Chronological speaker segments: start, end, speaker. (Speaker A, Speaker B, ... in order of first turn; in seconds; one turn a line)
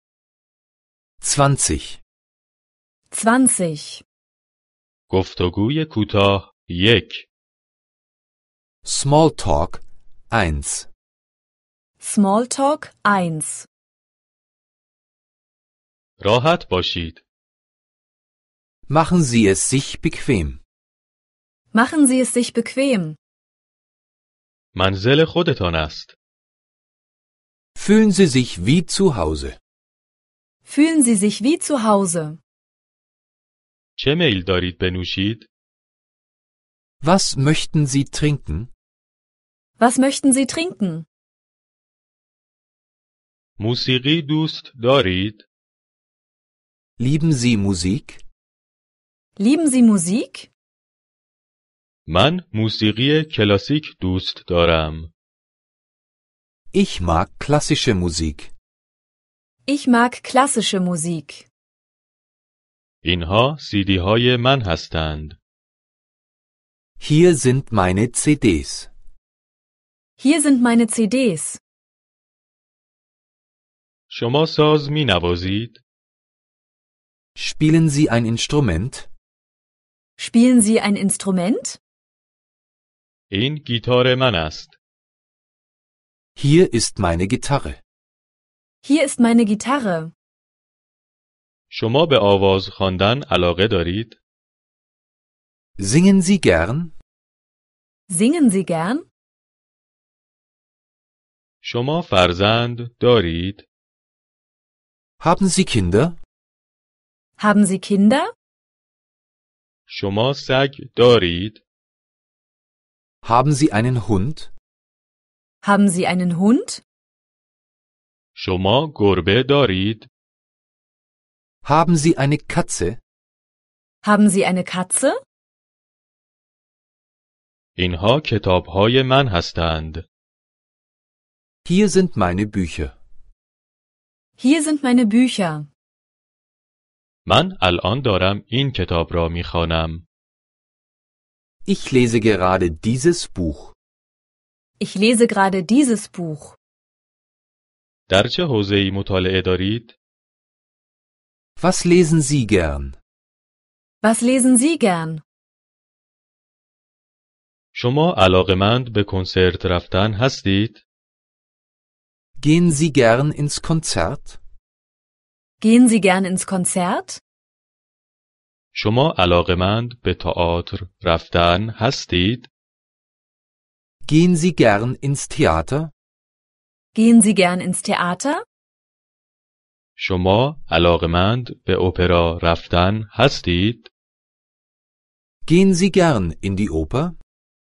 Speaker A: 1.2-2.0
Speaker B: 3.1-4.0
Speaker C: 5.1-7.3
Speaker A: 8.8-10.9
Speaker B: 12.0-13.7
Speaker C: 16.2-17.2
Speaker A: 18.9-20.6
Speaker B: 21.7-23.2
Speaker C: 24.7-26.1
Speaker A: 27.8-29.6
Speaker B: 30.6-32.4
Speaker C: 34.0-35.5
Speaker A: 37.0-38.7
Speaker B: 39.8-41.0
Speaker C: 43.6-45.5
Speaker A: 47.0-48.2
Speaker B: 49.4-50.5
Speaker C: 52.1-55.1
Speaker A: 56.7-58.5
Speaker B: 59.7-61.5
Speaker C: 63.0-65.4
Speaker A: 67.0-68.9
Speaker B: 70.2-71.6
Speaker C: 74.1-75.8
Speaker A: 77.3-79.1
Speaker B: 80.2-81.8
Speaker C: 83.3-84.8
Speaker A: 86.4-87.8
Speaker B: 88.8-90.1
Speaker C: 91.7-94.2
Speaker A: 95.8-96.9
Speaker B: 98.1-99.0
Speaker C: 101.6-103.7
Speaker A: 105.2-106.2
Speaker B: 107.4-108.3
Speaker C: 109.9-111.6
Speaker A: 113.2-114.5
Speaker B: 115.6-116.8
Speaker C: 118.3-120.1
Speaker A: 121.6-123.0
Speaker B: 124.0-125.2
Speaker C: 127.8-130.1
Speaker A: 131.6-132.9
Speaker B: 134.4-135.7
Speaker C: 137.2-140.0
Speaker A: 141.7-143.7
Speaker B: 144.8-146.6
Speaker C: 148.1-149.9
Speaker A: 151.6-153.0
Speaker B: 154.0-155.2
Speaker C: 157.7-160.8
Speaker A: 162.4-164.4
Speaker B: 165.6-167.2
Speaker C: 168.7-172.5
Speaker A: 174.1-175.9
Speaker B: 176.9-178.4
Speaker C: 180.0-183.9
Speaker A: 185.4-187.2